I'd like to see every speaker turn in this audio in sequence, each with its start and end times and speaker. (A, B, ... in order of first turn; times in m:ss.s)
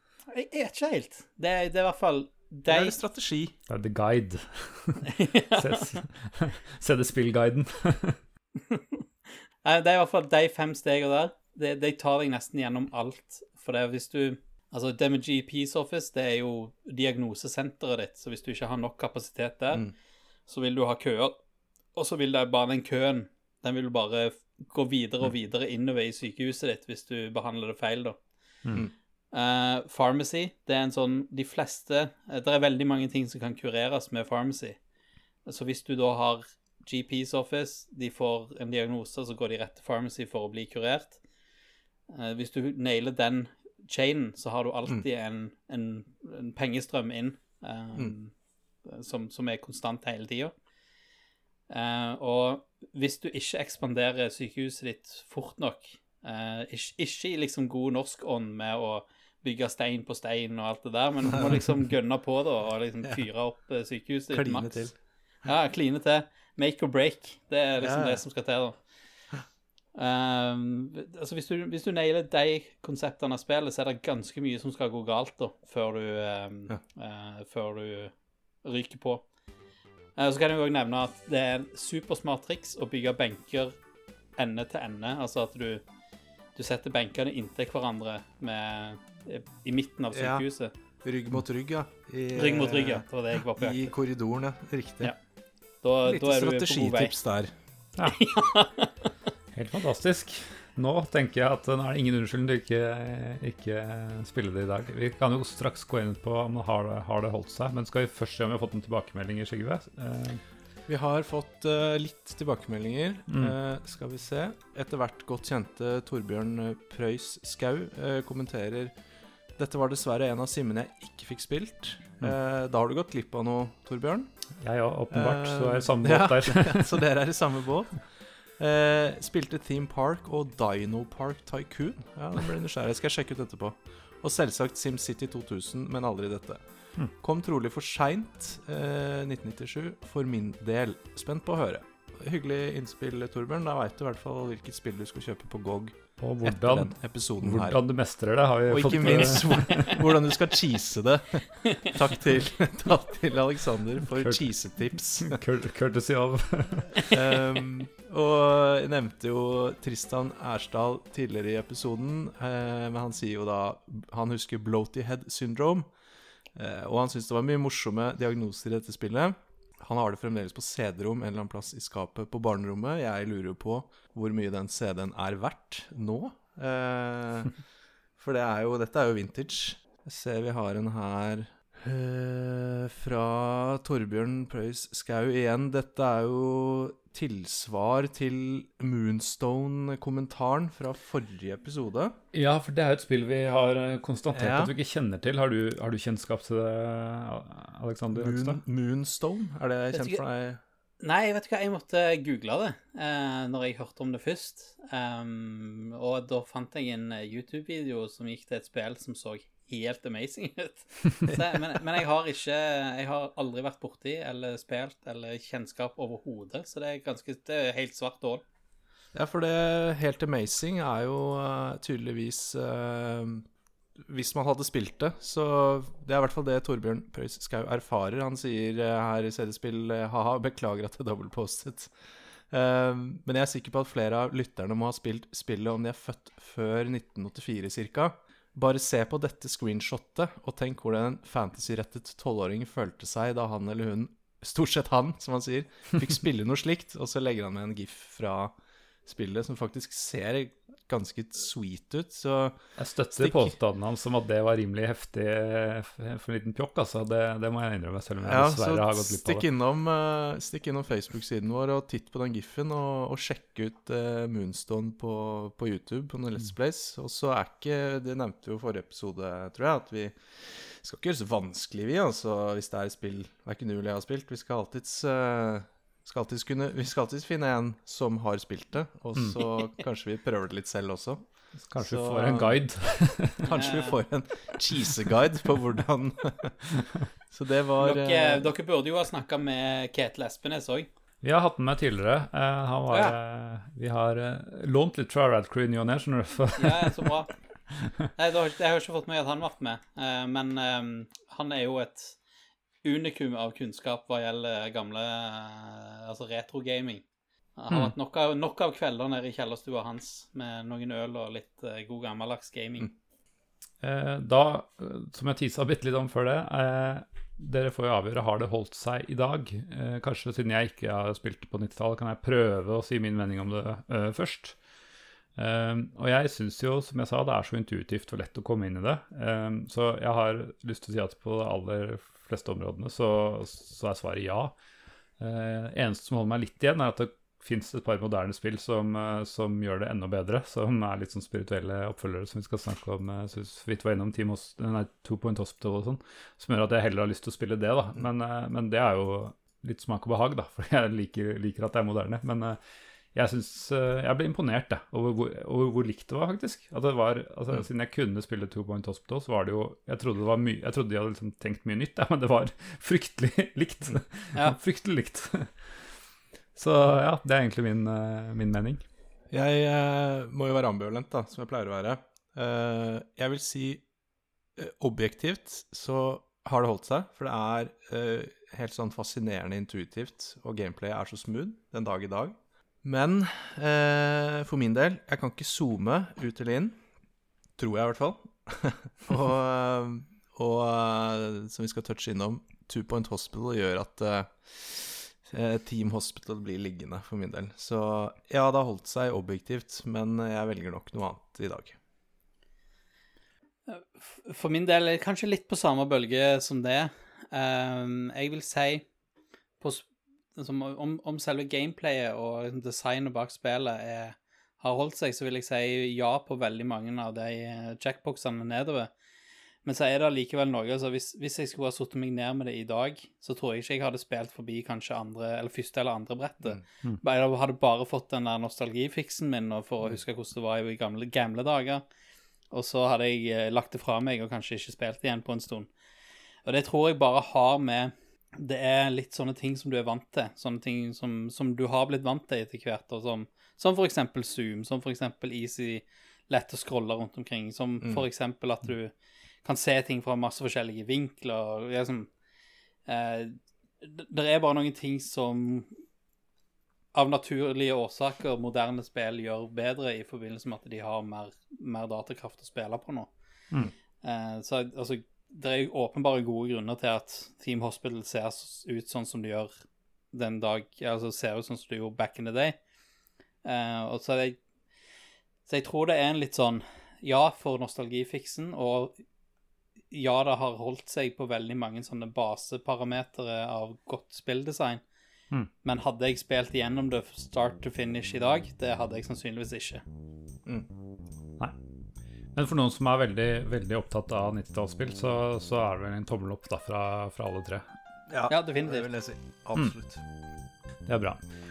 0:00.3-0:03.0 A
0:02.7-0:03.5 B
0:03.7-0:08.2 C
0:05.0-0:06.0 A
0:08.6-0:09.0 A
0:09.6-0:19.9 A
0:20.5-0:21.4 A
0:21.9-0:28.2 A
0:29.3-0:34.8 A
0:35.4-0:41.2 A
0:42.1-0:48.3 A
0:48.8-0:50.5 A
0:51.7-1:04.9 A
1:04.3-1:05.0 B
1:05.4-1:08.8 A
1:07.8-1:08.2 B
1:09.9-1:18.1 A
1:18.6-1:19.2 A
1:20.2-1:23.8 A
1:24.4-1:25.8 A
1:26.6-1:30.7 A
1:30.1-1:30.4 B
1:31.0-1:35.1 B
1:32.4-1:33.9 A
1:35.8-1:37.1 A
1:36.0-1:37.5 B
1:38.0-1:39.1 A
1:39.5-1:50.4 C
1:50.9-1:58.9 B
1:53.3-1:53.5 C
1:59.6-2:04.3 B
2:04.6-2:07.0 C
2:05.1-2:08.0 B
2:08.6-2:16.6 B
2:17.2-2:27.8 B
2:26.2-2:30.0 C
2:28.7-2:35.4 B
2:34.1-2:34.5 C
2:35.2-2:37.0 C
2:37.0-2:45.9 B
2:46.6-2:57.5 B
2:58.2-3:12.2 B
3:12.3-3:18.6 C
3:14.3-3:14.7 B
3:18.1-3:20.6 B
3:19.9-3:20.2 A
3:21.0-3:38.4 A
3:39.1-3:43.5 B
3:44.1-3:51.9 B
3:52.5-4:08.5 B
4:09.0-4:13.5 B
4:12.8-4:19.4 C
4:18.2-4:42.6 B
4:41.6-4:43.5 C
4:43.4-4:46.7 B
4:43.5-4:44.0 A
4:47.3-4:48.5 B
4:47.8-4:50.9 A
4:51.2-4:57.2 C
4:52.9-4:53.2 A
4:56.6-4:57.3 A
4:57.7-4:58.1 C
4:58.2-5:02.2 A
5:02.8-5:07.0 A
5:07.6-5:12.9 A
5:13.8-5:24.6 C
5:25.4-5:34.5 C
5:35.2-5:52.6 C
5:53.1-6:05.8 C
6:06.6-6:08.8 C
6:09.3-6:13.8 B
6:14.6-6:26.8 B
6:27.6-6:41.8 B
6:43.7-6:48.8 A
6:49.6-6:58.9 A
6:59.6-7:11.8 A
7:12.5-7:15.7 A
7:16.4-7:28.9 A
7:29.4-7:32.1 A
7:32.9-7:35.7 A
7:36.9-7:43.1 A
7:44.0-7:49.5 A
7:50.1-7:52.6 A
7:53.4-7:54.4 A
7:55.5-7:59.0 A
7:59.9-8:04.8 A
8:05.6-8:09.8 A
8:12.3-8:17.6 C
8:18.1-8:20.0 B
8:18.3-8:18.9 A
8:20.8-8:21.2 C